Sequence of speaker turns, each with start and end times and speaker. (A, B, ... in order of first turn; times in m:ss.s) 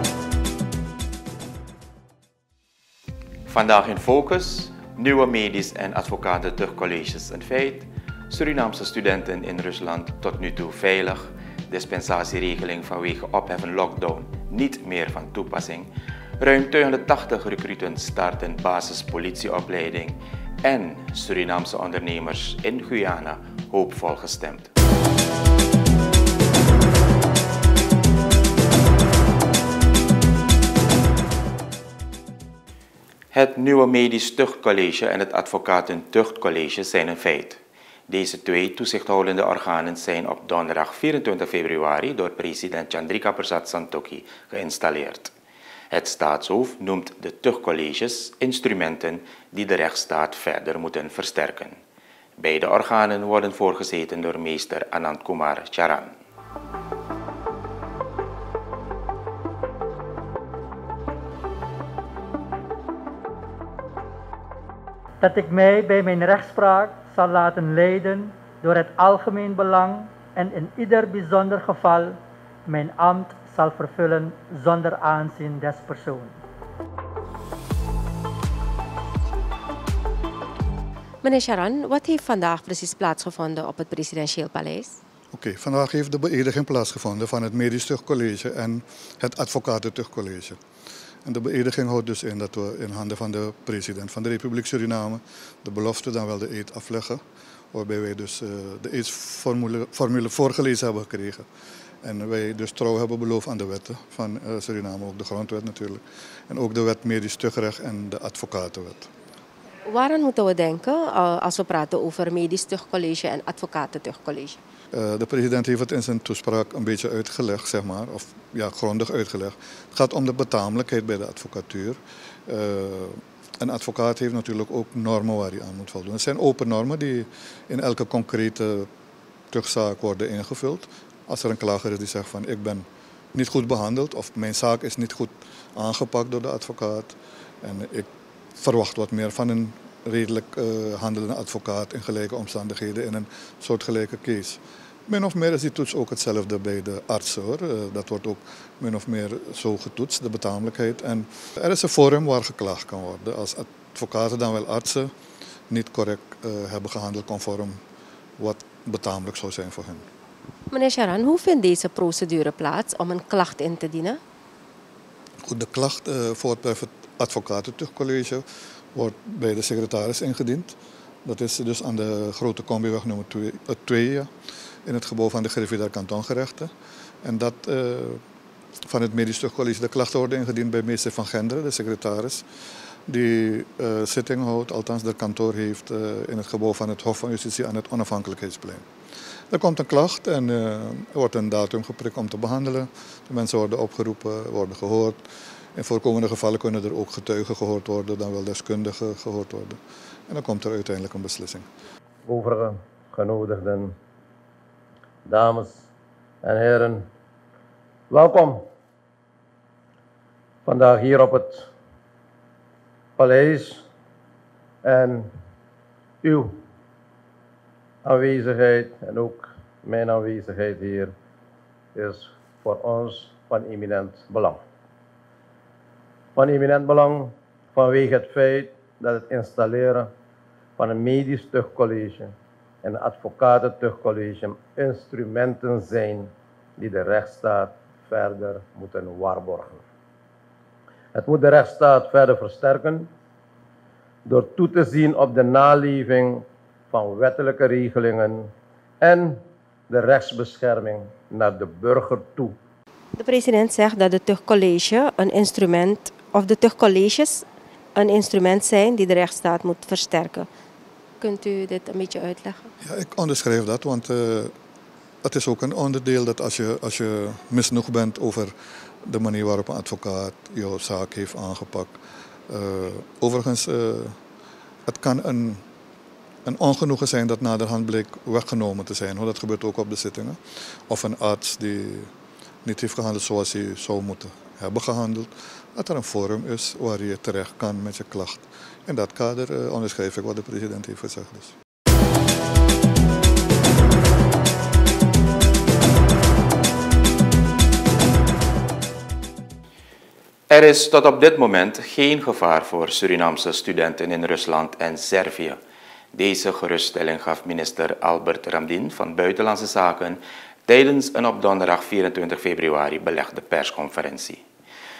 0:03.5-0:24.7 A
0:33.3-0:45.3 A
0:45.9-0:51.8 A
0:52.4-0:56.1 A
1:05.2-1:16.4 B
1:21.2-1:25.0 C
1:25.3-1:30.6 D
1:31.2-1:37.2 D
1:37.7-1:41.4 D
1:42.0-1:49.1 D
1:49.8-1:54.6 C
1:54.9-2:08.9 D
2:09.5-2:35.1 D
2:35.7-2:37.8 D
2:38.4-2:40.0 D
2:40.7-2:44.2 C
2:45.4-2:48.4 D
2:48.9-2:54.3 D
2:54.8-2:56.7 D
2:57.2-2:58.2 D
2:58.9-3:02.4 D
3:03.1-3:08.8 D
3:09.5-3:15.2 D
3:15.8-3:21.6 D
3:22.2-3:23.9 E
3:25.2-3:25.8 E
3:26.4-3:27.0 E
3:28.1-3:28.6 E
3:30.6-3:31.6 E
3:33.2-3:33.8 E
3:34.8-3:35.3 E
3:36.2-3:36.6 E
3:38.0-3:41.1 E
3:41.9-3:44.6 E
3:46.4-3:50.1 E
3:50.8-3:59.8 E
4:01.1-4:03.1 E
4:04.2-4:08.5 E
4:09.0-4:12.5 E
4:13.2-4:17.4 C
4:18.0-4:20.5 C
4:21.2-4:22.7 C
4:22.8-4:24.5 D
4:25.2-4:28.5 D
4:29.0-4:32.0 D
4:32.5-4:34.2 D
4:34.8-4:35.6 D
4:36.4-4:42.1 D
4:42.6-4:51.5 D
5:00.5-5:05.6 A
5:06.1-5:14.4 A